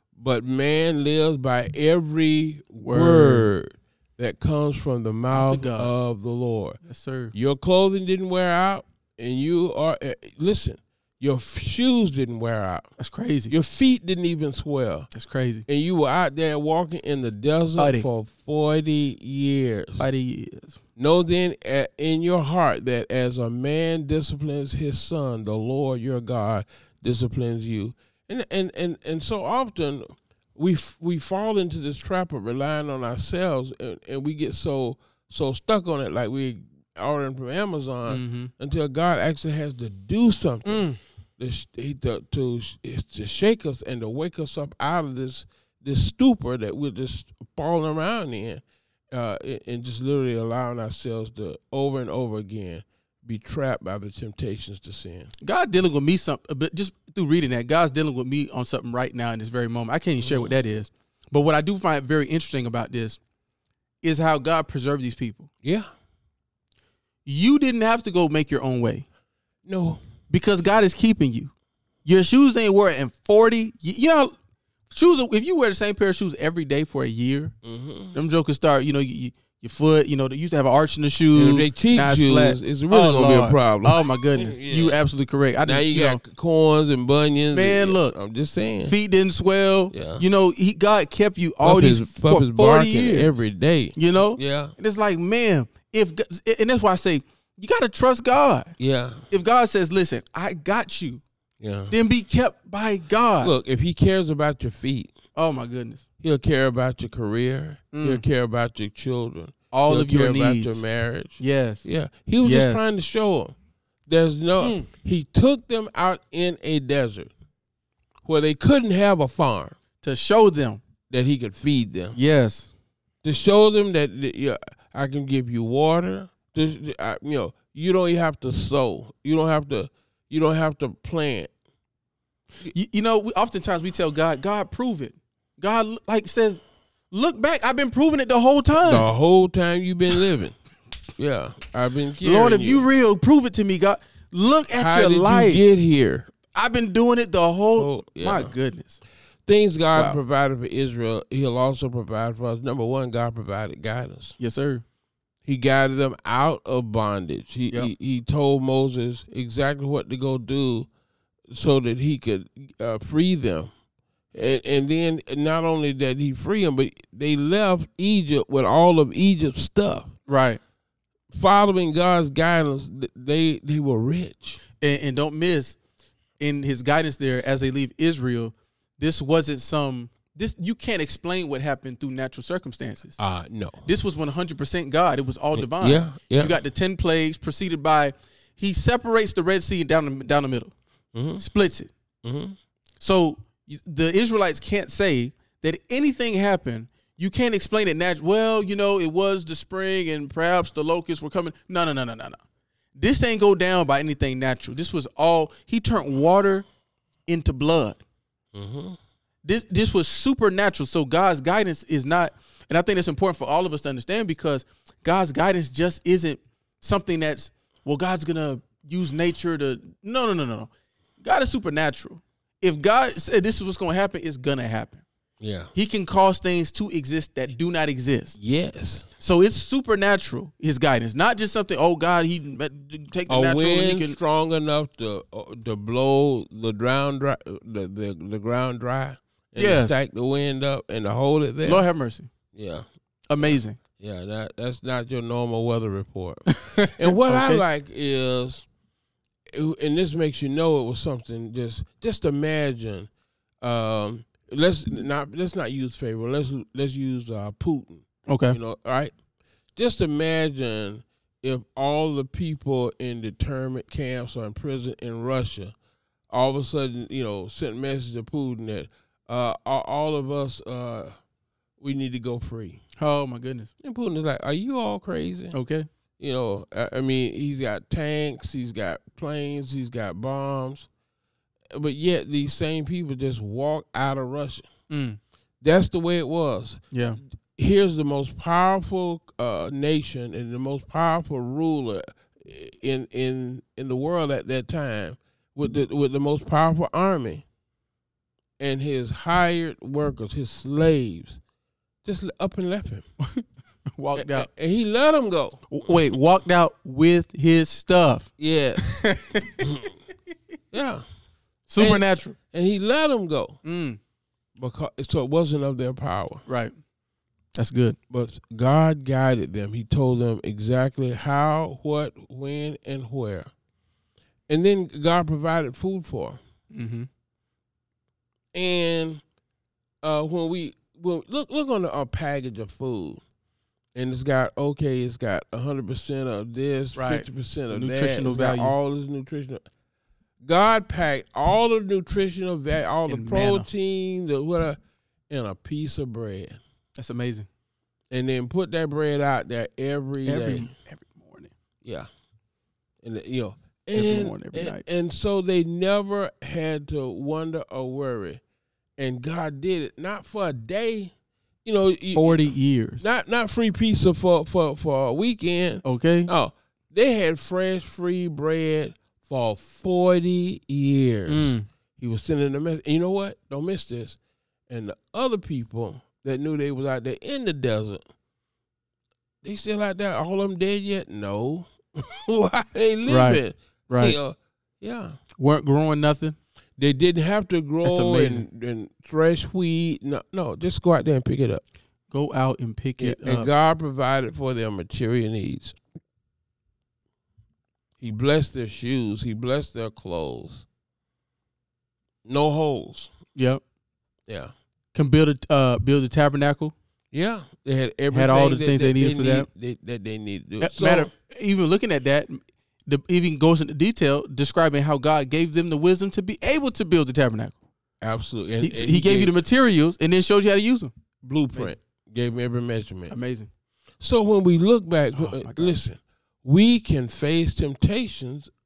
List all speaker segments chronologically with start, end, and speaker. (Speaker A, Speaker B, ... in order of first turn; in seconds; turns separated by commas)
Speaker A: 0.1-6.8, Speaker B: 2.8-3.5, Speaker B: 5.3-5.9, Speaker B: 6.8-7.3, Speaker A: 7.3-12.9, Speaker B: 13.0-13.5, Speaker A: 13.5-15.1, Speaker B: 15.1-15.6, Speaker A: 15.7-20.1, Speaker B: 17.8-18.1, Speaker B: 20.0-20.8, Speaker A: 21.0-48.6, Speaker B: 38.1-38.5, Speaker B: 40.6-41.0, Speaker A: 49.1-55.3, Speaker B: 55.4-63.2, Speaker A: 60.2-60.5, Speaker B: 64.0-65.5, Speaker A: 65.6-65.9, Speaker B: 67.2-69.0, Speaker A: 69.7-70.0, Speaker B: 70.3-71.5, Speaker B: 72.0-74.3, Speaker B: 74.9-77.5, Speaker A: 77.6-78.2, Speaker B: 78.1-86.2, Speaker A: 81.3-85.0, Speaker A: 85.6-88.9, Speaker B: 87.5-88.1, Speaker B: 88.8-93.4, Speaker A: 89.9-90.2, Speaker A: 91.6-94.7, Speaker B: 94.0-98.7, Speaker A: 98.8-99.3, Speaker B: 99.3-101.2, Speaker A: 101.6-101.9, Speaker B: 101.9-103.5, Speaker A: 103.4-105.1, Speaker B: 105.3-106.0, Speaker A: 106.2-113.5, Speaker B: 107.9-108.2, Speaker B: 109.7-110.8, Speaker B: 111.4-111.8, Speaker B: 112.4-112.9, Speaker A: 114.1-117.3, Speaker B: 114.6-114.9, Speaker A: 118.2-119.8, Speaker B: 120.0-120.8, Speaker A: 121.1-122.2, Speaker B: 122.1-122.7, Speaker A: 123.2-131.5, Speaker B: 132.6-139.1, Speaker A: 138.8-140.6, Speaker A: 141.2-142.8, Speaker B: 142.2-145.6, Speaker A: 144.8-146.3, Speaker B: 146.5-149.0, Speaker A: 147.8-148.5, Speaker A: 149.4-154.3, Speaker B: 154.4-154.8, Speaker A: 155.4-160.9, Speaker A: 161.5-163.7, Speaker A: 164.3-170.1, Speaker B: 170.3-170.6, Speaker A: 171.3-174.6, Speaker B: 174.8-175.8, Speaker B: 176.4-183.2, Speaker A: 183.2-183.9, Speaker B: 183.8-190.7, Speaker A: 185.5-186.6, Speaker A: 191.1-191.4, Speaker B: 191.4-191.9, Speaker A: 192.2-192.6, Speaker B: 193.0-202.4, Speaker B: 202.9-206.7, Speaker B: 207.3-208.0, Speaker A: 208.5-209.0, Speaker B: 209.4-220.7, Speaker B: 221.2-225.0, Speaker A: 225.4-225.7, Speaker B: 225.7-228.3, Speaker A: 228.3-229.1, Speaker B: 229.2-234.2, Speaker A: 233.3-241.8, Speaker B: 239.6-240.0, Speaker B: 241.6-242.3, Speaker A: 242.5-242.8, Speaker B: 243.3-243.8, Speaker A: 243.4-248.7, Speaker B: 246.5-247.6, Speaker A: 249.5-253.1, Speaker A: 253.6-259.1, Speaker B: 258.3-258.6, Speaker A: 259.8-265.7, Speaker A: 266.3-271.1, Speaker A: 271.8-272.8, Speaker B: 273.0-273.7, Speaker A: 273.8-275.5, Speaker B: 275.5-275.9, Speaker A: 276.2-280.9, Speaker A: 281.7-284.7, Speaker B: 284.9-285.2, Speaker A: 285.6-286.8, Speaker B: 286.9-287.2, Speaker A: 287.5-297.4, Speaker A: 298.6-301.4, Speaker A: 302.0-303.0, Speaker B: 303.2-303.4, Speaker B: 303.9-304.5, Speaker A: 304.1-305.9, Speaker B: 305.7-309.7, Speaker A: 308.4-309.0, Speaker A: 309.6-309.9, Speaker A: 310.7-311.0, Speaker B: 311.7-312.3, Speaker A: 311.8-313.6, Speaker B: 313.6-314.0, Speaker A: 314.6-316.4, Speaker B: 316.5-316.7, Speaker B: 317.5-318.0, Speaker A: 318.1-323.5, Speaker A: 324.5-326.4, Speaker B: 326.7-327.1, Speaker A: 328.5-329.2, Speaker A: 330.0-333.2, Speaker A: 333.9-339.6, Speaker B: 336.9-338.7, Speaker A: 340.4-344.8, Speaker B: 343.1-343.7, Speaker A: 345.3-346.6, Speaker B: 346.9-347.5, Speaker A: 348.1-350.7, Speaker B: 350.2-351.5, Speaker A: 353.0-358.4, Speaker B: 353.9-354.8, Speaker A: 359.0-361.1, Speaker A: 361.6-374.2, Speaker B: 362.1-363.0, Speaker B: 365.8-366.3, Speaker B: 371.3-371.7, Speaker A: 374.7-378.0, Speaker A: 379.4-385.2, Speaker B: 383.1-384.2, Speaker B: 385.4-386.4, Speaker A: 386.8-391.6, Speaker B: 387.8-388.4, Speaker B: 392.1-393.5, Speaker A: 393.0-395.8, Speaker A: 398.0-400.6, Speaker A: 402.2-403.1, Speaker B: 403.4-403.6, Speaker A: 404.3-404.5, Speaker B: 404.9-406.7, Speaker A: 407.1-411.1, Speaker B: 408.1-409.5, Speaker B: 410.6-417.6, Speaker A: 418.0-419.3, Speaker B: 418.6-420.9, Speaker A: 421.2-423.1, Speaker B: 423.1-423.5, Speaker A: 424.0-428.5, Speaker B: 425.1-425.8